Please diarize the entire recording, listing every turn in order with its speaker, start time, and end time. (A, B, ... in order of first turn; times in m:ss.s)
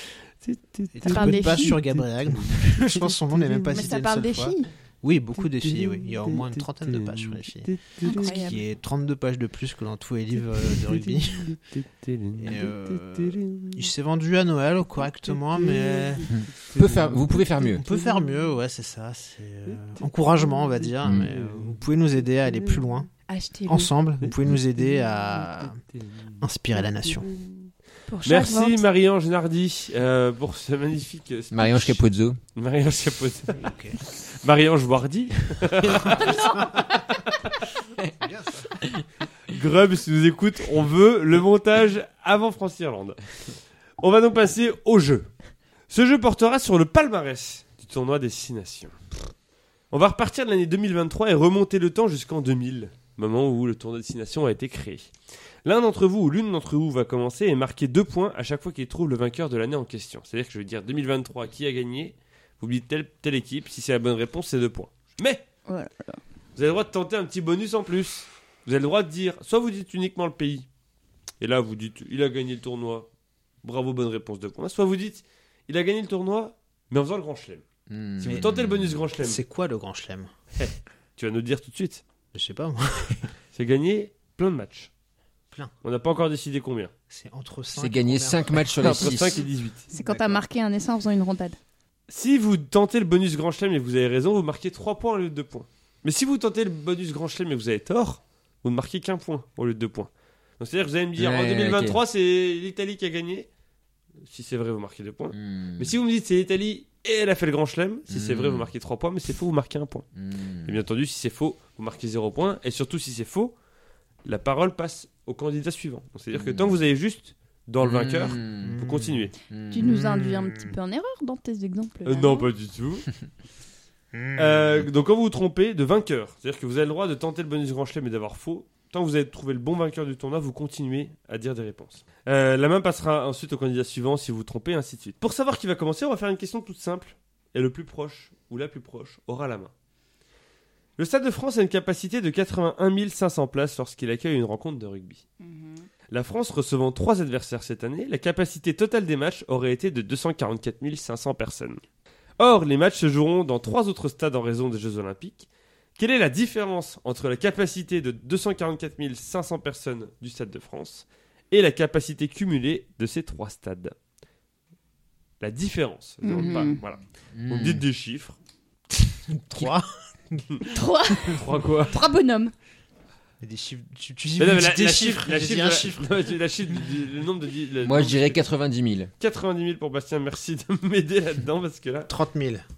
0:00.4-0:03.9 A
0:00.9-0:11.6 B
0:01.0-0:01.8 C
0:03.7-0:04.7 C
0:05.4-0:08.4 A
0:08.0-0:08.6 C
0:10.4-0:13.9 A
0:12.4-0:16.3 B
0:15.2-0:18.3 A
0:16.3-0:17.8 D
0:17.7-0:23.1 B
0:19.7-0:22.9 A
0:21.0-0:21.3 D
0:23.3-0:23.9 C
0:23.7-0:25.8 B
0:25.0-0:26.4 A
0:26.4-0:27.3 B
0:27.0-0:27.7 A
0:28.1-0:28.8 C
0:28.2-0:32.0 A
0:31.5-0:32.4 D
0:32.5-0:36.6 A
0:33.5-0:34.0 B
0:35.8-0:37.0 B
0:36.2-0:36.8 C
0:38.2-0:38.7 B
0:39.5-0:43.2 A
0:44.0-0:45.3 A
0:45.9-0:48.9 A
0:49.9-0:55.1 A
0:55.6-1:05.4 A
1:05.7-1:06.2 C
1:06.6-1:10.6 A
1:11.4-1:13.1 A
1:13.6-1:17.6 A
1:17.9-1:19.0 D
1:18.2-1:19.4 A
1:18.3-1:18.5 B
1:19.2-1:20.3 B
1:20.6-1:22.0 A
1:22.3-1:23.3 B
1:23.5-1:24.9 A
1:25.8-1:26.9 A
1:27.1-1:29.4 B
1:27.7-1:29.4 D
1:28.8-1:29.9 A
1:29.9-1:31.6 C
1:30.0-1:30.4 B
1:32.1-1:43.5 A
1:41.2-1:42.0 D
1:44.2-1:50.1 A
1:45.3-1:46.0 D
1:48.1-1:48.7 D
1:50.1-1:50.8 D
1:50.6-1:53.5 A
1:54.2-1:59.3 A
1:56.3-1:56.7 D
1:57.8-1:58.8 D
1:58.6-1:59.3 B
1:59.5-2:00.1 D
1:59.7-2:02.5 C
1:59.8-2:00.7 B
2:02.0-2:03.1 A
2:04.1-2:04.8 B
2:04.4-2:19.7 A
2:21.0-2:25.2 A
2:25.4-2:25.9 C
2:26.1-2:31.8 A
2:32.4-2:43.9 A
2:45.4-2:48.4 A
2:46.2-2:46.8 C
2:47.3-2:47.8 D
2:49.3-2:50.6 B
2:50.6-2:52.5 C
2:51.3-2:51.9 A
2:53.4-2:56.1 B
2:54.4-2:58.4 A
2:57.8-2:59.1 D
2:59.2-3:02.1 A
3:02.1-3:02.6 B